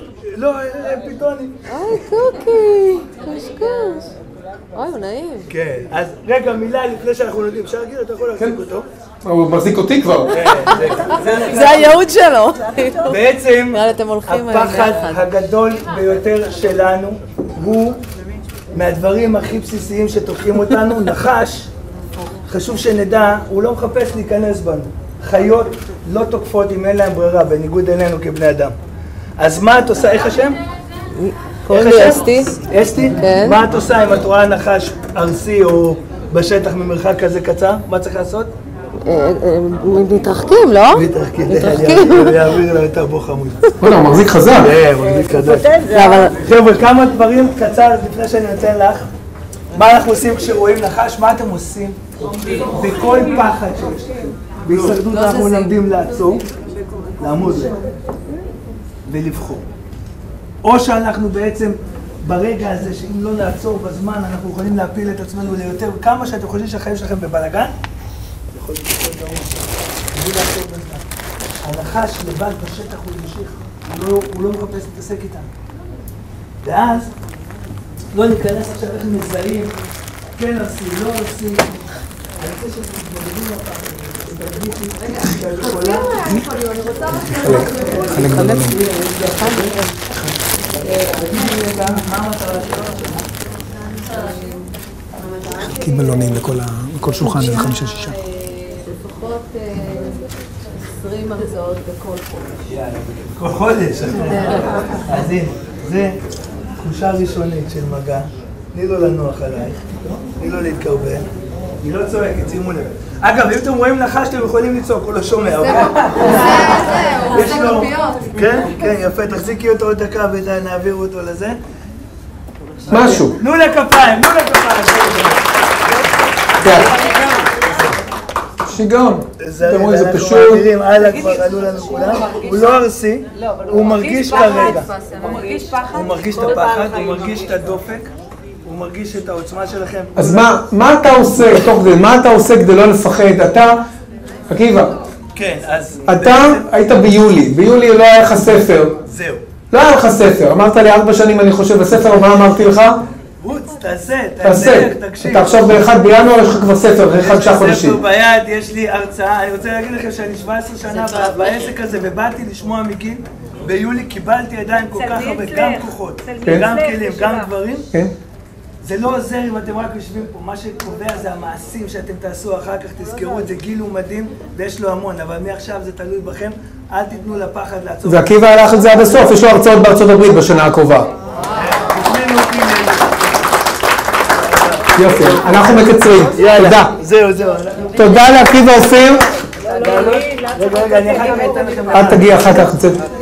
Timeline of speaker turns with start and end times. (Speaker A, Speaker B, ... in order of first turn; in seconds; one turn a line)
Speaker A: 0.2-1.7
Speaker B: 1.7-4.1
Speaker B: 4.7-5.5
Speaker A: 5.5-8.9
Speaker C: 9.2-10.4
Speaker A: 10.3-12.0
Speaker B: 10.8-13.1
Speaker A: 13.0-18.0
Speaker B: 13.7-15.2
Speaker A: 18.7-21.7
Speaker A: 22.5-28.8
Speaker A: 29.4-30.6
Speaker B: 31.2-32.6
Speaker A: 31.7-38.5
Speaker B: 33.2-33.6
Speaker B: 39.0-42.5
Speaker A: 40.9-43.8
Speaker C: 43.8-44.7
Speaker A: 44.5-49.1
Speaker B: 45.6-46.4
Speaker A: 49.7-56.4
Speaker B: 55.0-55.7
Speaker A: 57.2-57.8
Speaker A: 59.1-59.6
Speaker A: 60.6-67.7
Speaker A: 68.5-71.1
Speaker A: 71.6-75.5
Speaker A: 76.6-77.1
Speaker A: 78.1-79.7
Speaker A: 80.3-81.7
Speaker A: 82.4-86.5
Speaker B: 86.3-87.4
Speaker C: 87.1-88.8
Speaker A: 87.4-90.3
Speaker B: 88.2-89.9
Speaker A: 90.8-93.3
Speaker B: 94.1-94.6
Speaker B: 95.3-96.0
Speaker C: 95.6-98.2
Speaker B: 97.2-102.6
Speaker A: 102.7-106.2
Speaker B: 104.5-105.0
Speaker A: 106.8-111.2
Speaker A: 111.8-121.6
Speaker B: 116.2-118.2
Speaker A: 122.9-125.5
Speaker C: 122.9-123.4
Speaker B: 126.5-127.5
Speaker C: 126.6-127.0
Speaker C: 128.6-130.6
Speaker A: 129.4-134.9
Speaker B: 130.9-132.8
Speaker B: 133.4-137.5
Speaker A: 135.9-138.1
Speaker A: 138.6-140.6
Speaker C: 140.2-143.8
Speaker C: 144.5-144.9
Speaker A: 145.3-146.7
Speaker C: 146.1-148.9
Speaker A: 148.9-149.4
Speaker C: 149.7-153.0
Speaker A: 153.4-155.9
Speaker C: 154.4-158.0
Speaker A: 157.1-167.9
Speaker B: 160.9-161.7
Speaker B: 164.9-167.4
Speaker A: 168.8-179.1
Speaker C: 178.1-181.1
Speaker A: 181.5-183.4
Speaker A: 184.3-188.2
Speaker C: 184.9-186.9
Speaker C: 187.9-189.2
Speaker B: 189.6-192.0
Speaker A: 189.6-192.6
Speaker C: 191.9-193.0